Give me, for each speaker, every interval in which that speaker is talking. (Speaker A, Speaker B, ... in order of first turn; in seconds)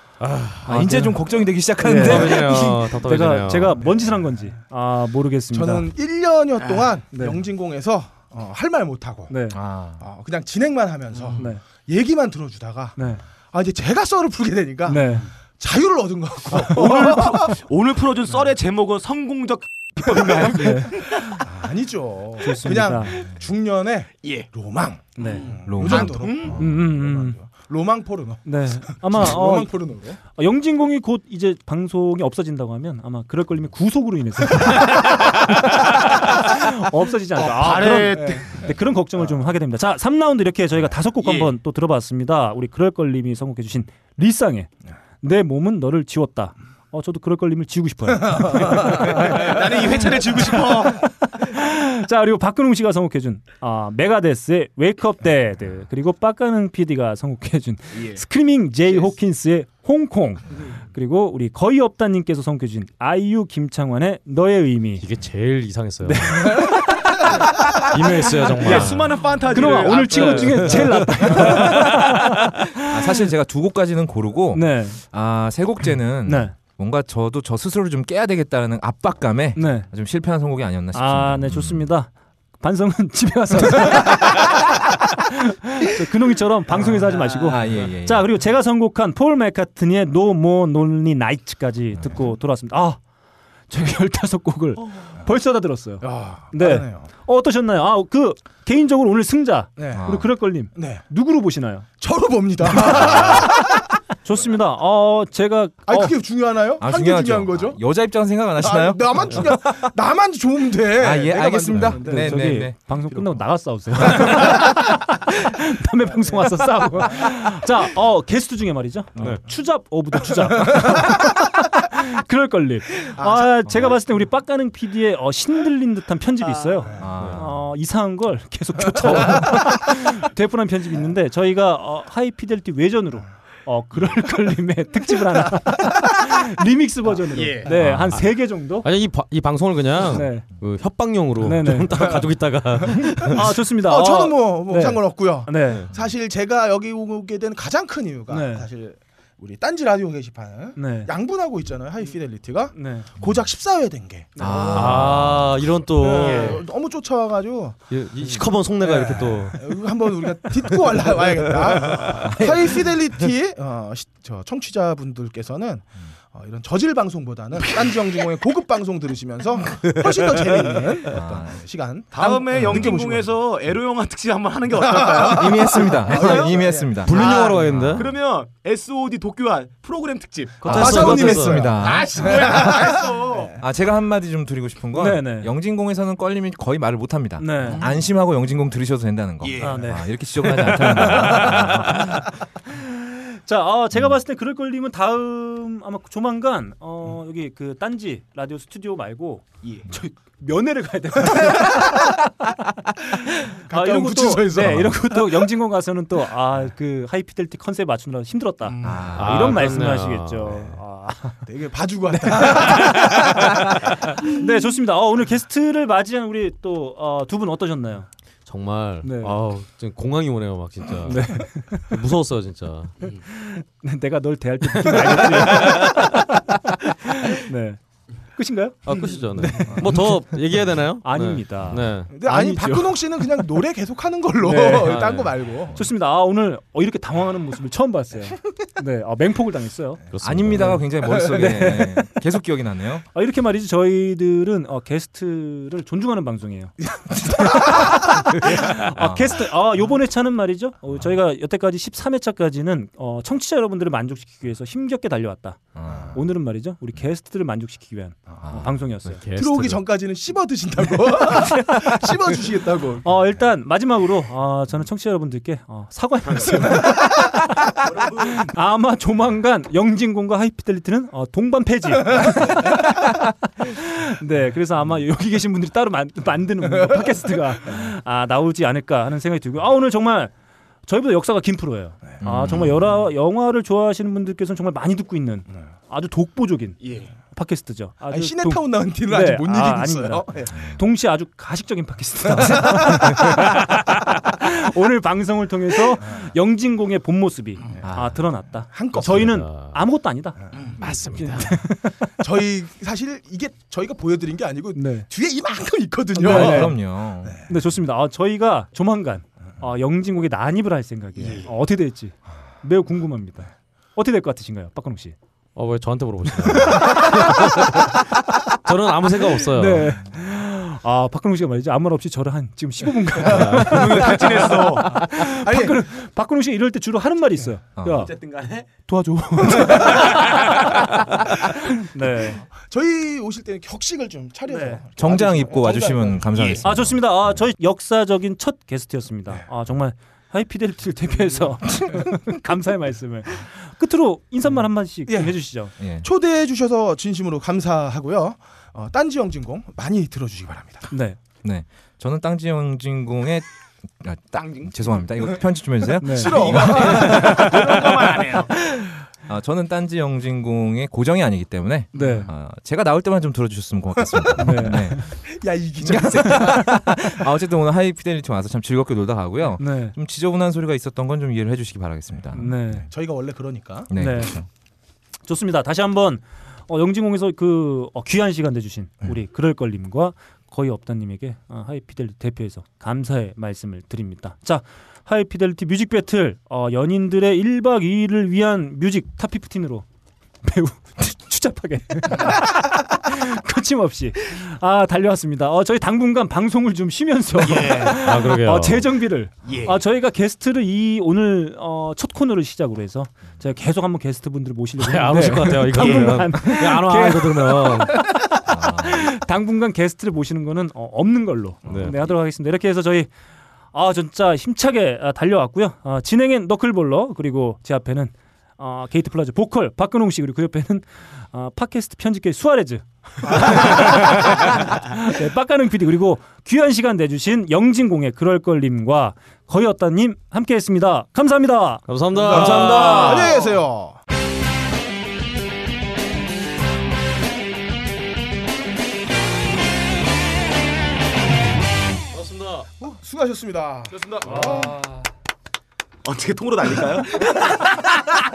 Speaker A: 0.2-0.7, 1.9-3.8, 65.0-66.8, 67.7-72.1, 119.2-119.4, 137.7-143.4, 154.7-156.6, 157.9-159.8, 177.0-178.1, 180.6-181.6, 209.1-210.7, 218.4-222.9, 224.7-226.1, 228.8-232.1, 234.8-235.4, 240.1-240.8, 259.1-259.8, 299.0-299.8, 300.9-301.3, 315.5-320.0, 323.2-323.9, 397.9-399.0, 404.8-408.0, 411.7-412.1, 431.9-433.4, 442.1-442.6
Speaker B: 0.6-1.2, 1.8-5.8, 7.1-7.4, 9.3-9.6, 13.0-13.2, 14.9-15.3, 16.7-17.5, 20.0-21.2, 22.4-23.3, 25.2-27.4, 28.4-49.6, 51.4-65.0, 66.0-68.9, 69.5-72.8, 74.5-75.0, 76.2-76.5, 79.5-79.9, 80.9-84.7, 85.3-93.0, 93.7-101.9, 102.7-103.7, 104.2-106.1, 112.0-138.9, 140.1-140.4, 141.4-142.2, 143.2-145.8, 148.3-148.7, 150.8-151.1, 152.7-153.1, 154.4-154.9, 184.9-185.5, 187.4-187.8, 189.6-190.1, 193.4-202.2, 203.2-211.4, 212.1-218.1, 219.0-219.3, 221.0-221.9, 223.2-227.8, 228.3-233.5, 234.4-235.1, 235.7-240.0, 240.5-242.1, 243.1-259.2, 261.2-261.9, 263.0-273.1, 273.6-280.3, 280.9-302.0, 304.7-305.1, 306.1-306.8, 307.5-315.1, 316.6-317.2, 319.5-328.1, 328.9-330.9, 331.8-332.4, 334.5-334.8, 336.6-345.7, 350.9-351.2, 356.0-356.4, 361.9-362.3, 364.4-365.1, 369.6-369.9, 372.3-372.9, 373.9-374.4, 375.3-389.8, 390.4-413.1, 413.7-433.1
Speaker C: 0.7-2.8, 9.5-10.0, 25.7-26.5, 72.9-81.9, 86.8-88.3, 99.9-100.3, 106.8-109.9, 111.0-113.4, 114.0-114.4, 127.0-127.5, 137.8-138.2, 154.4-155.7, 162.1-162.6, 171.1-171.6, 175.4-178.1, 180.7-182.9, 183.6-192.2, 204.7-204.9, 208.8-209.5, 240.2-243.0, 247.5-248.0, 248.8-249.4, 255.7-256.2, 258.4-258.7, 282.2-282.8, 297.8-298.3, 306.2-307.4, 327.8-328.1, 335.0-337.4, 345.8-346.1, 351.4-353.4, 354.0-357.8, 359.3-365.1, 365.8-372.5, 373.9-374.4, 408.5-409.1
Speaker D: 5.5-9.4, 10.0-17.5, 21.4-30.2, 38.1-38.4, 48.2-48.9, 96.0-97.1, 99.8-100.1, 100.7-101.0, 102.0-103.8, 105.8-107.8, 108.6-112.5, 123.2-123.5, 142.8-155.3, 156.0-173.4, 174.8-177.1, 180.6-183.6, 190.8-191.7, 201.2-202.1, 203.7-205.4, 211.4-213.5, 232.1-235.8, 241.0-241.6, 259.3-263.0, 288.1-290.5, 292.4-293.0, 298.5-299.5, 300.5-301.6, 302.2-307.4, 325.0-325.8, 329.5-330.1, 332.5-336.4, 345.1-345.4, 346.0-350.9, 356.0-357.4, 361.9-362.2, 364.0-366.9, 372.9-373.9, 423.3-424.1, 432.2-434.0, 442.8-444.8
Speaker E: 6.6-6.8, 16.6-21.4, 24.2-24.5, 25.2-26.6, 37.4-38.6, 41.2-41.5, 48.9-51.0, 57.9-58.2, 68.5-71.1, 137.3-137.7, 156.2-156.6, 172.1-183.5, 189.4-190.0, 267.8-268.4, 286.8-287.1, 323.6-325.1, 327.9-328.7, 336.3-336.6, 354.3-355.1, 356.2-358.5, 397.4-398.0, 399.4-399.8, 405.8-406.2, 443.9-444.8, 446.0-447.8